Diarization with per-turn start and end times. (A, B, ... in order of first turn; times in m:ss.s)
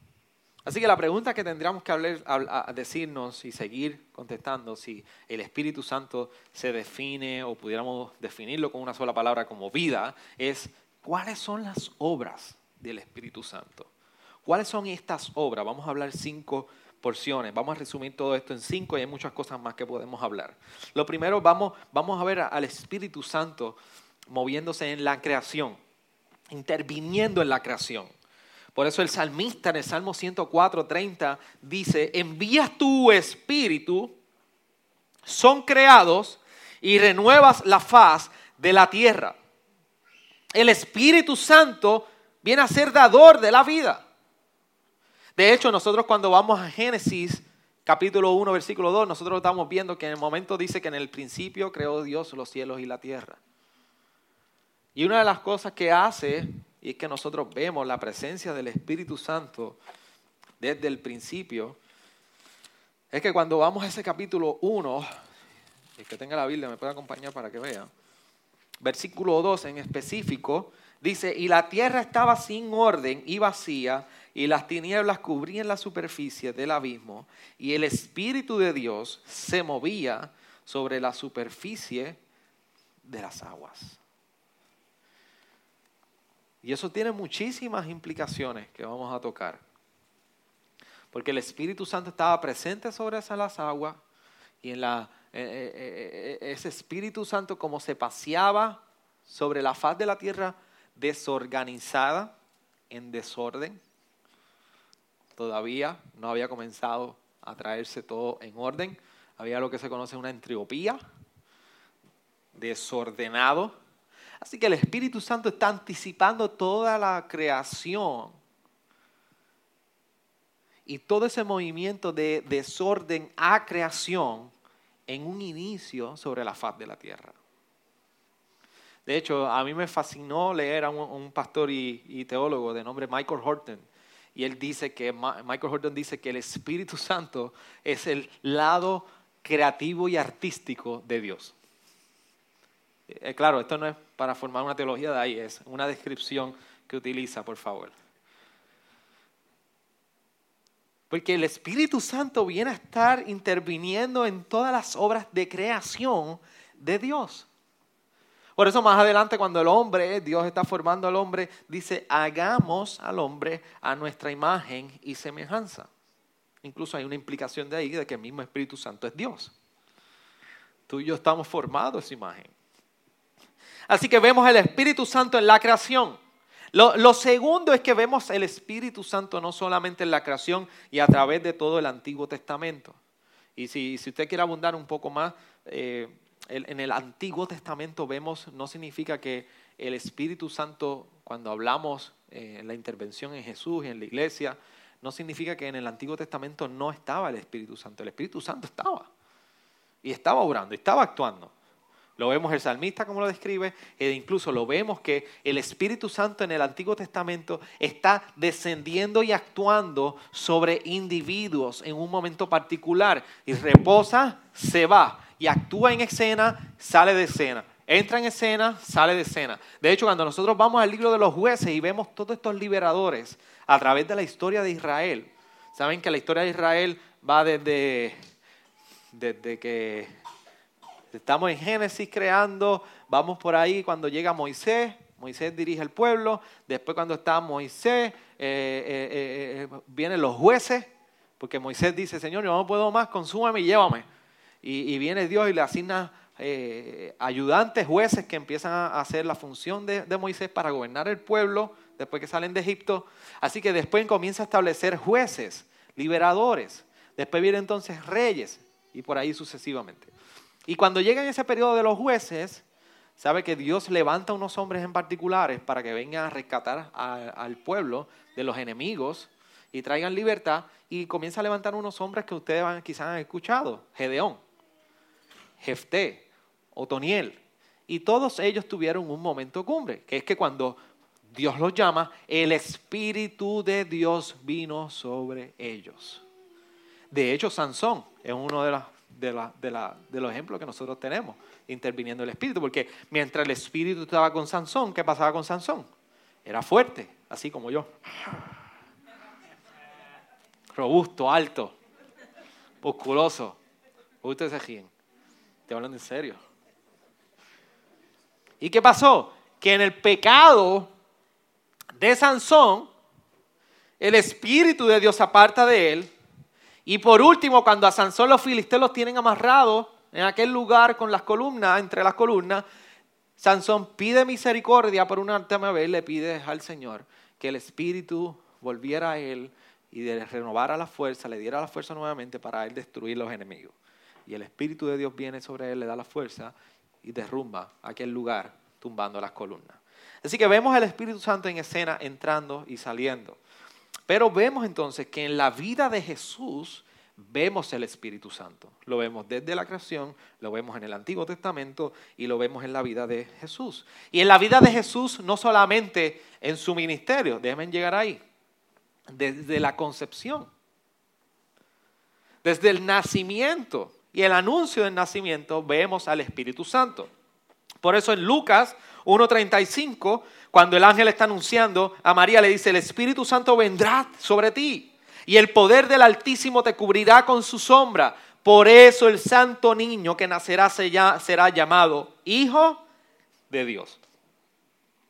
0:00.6-0:13.9 A
0:14.4-0:25.8 A
0:26.5-0:28.1 A
0:28.8-0:34.2 A
0:35.2-0:39.4 A
0:40.5-0:44.0 A
0:45.4-0:53.4 A
0:55.0-0:59.8 A
1:00.6-1:01.8 A
1:03.1-1:05.1 A
1:06.0-1:07.9 A
1:08.8-1:22.2 A
1:23.1-1:24.0 A
1:26.6-1:29.6 A
1:31.1-1:34.0 A
1:34.6-1:42.3 A
1:42.9-1:43.8 A
1:45.4-1:51.0 A
1:52.5-1:53.8 A
1:54.4-1:58.4 A
2:00.9-2:04.5 A
2:05.1-2:07.4 A
2:09.1-2:21.5 A
2:23.1-2:27.9 A
2:31.1-2:37.5 A
2:38.6-2:45.9 A
2:46.6-2:49.5 A
2:50.9-2:52.5 A
2:53.9-2:56.2 A
2:56.7-3:03.0 A
3:03.6-3:19.1 A
3:20.0-3:21.5 A
3:22.2-3:48.2 A
3:49.1-3:50.1 A
3:51.1-4:04.0 A
4:04.6-4:20.1 A
4:20.7-4:22.6 A
4:23.2-4:34.4 A
4:35.6-4:40.8 A
4:41.3-4:46.2 A
4:47.1-4:55.9 A
4:56.4-4:58.4 A
5:00.7-5:01.8 A
5:02.8-5:03.6 A
5:04.2-5:04.9 A
5:05.7-5:06.4 A
5:08.6-5:10.9 A
5:12.0-5:12.9 A
5:14.0-5:16.1 A
5:16.9-5:22.6 A
5:23.4-5:33.7 A
5:34.3-5:43.4 A
5:44.1-5:58.2 A
5:59.1-6:00.5 A
6:02.4-6:07.1 A
6:07.8-6:22.8 A
6:23.5-6:24.0 A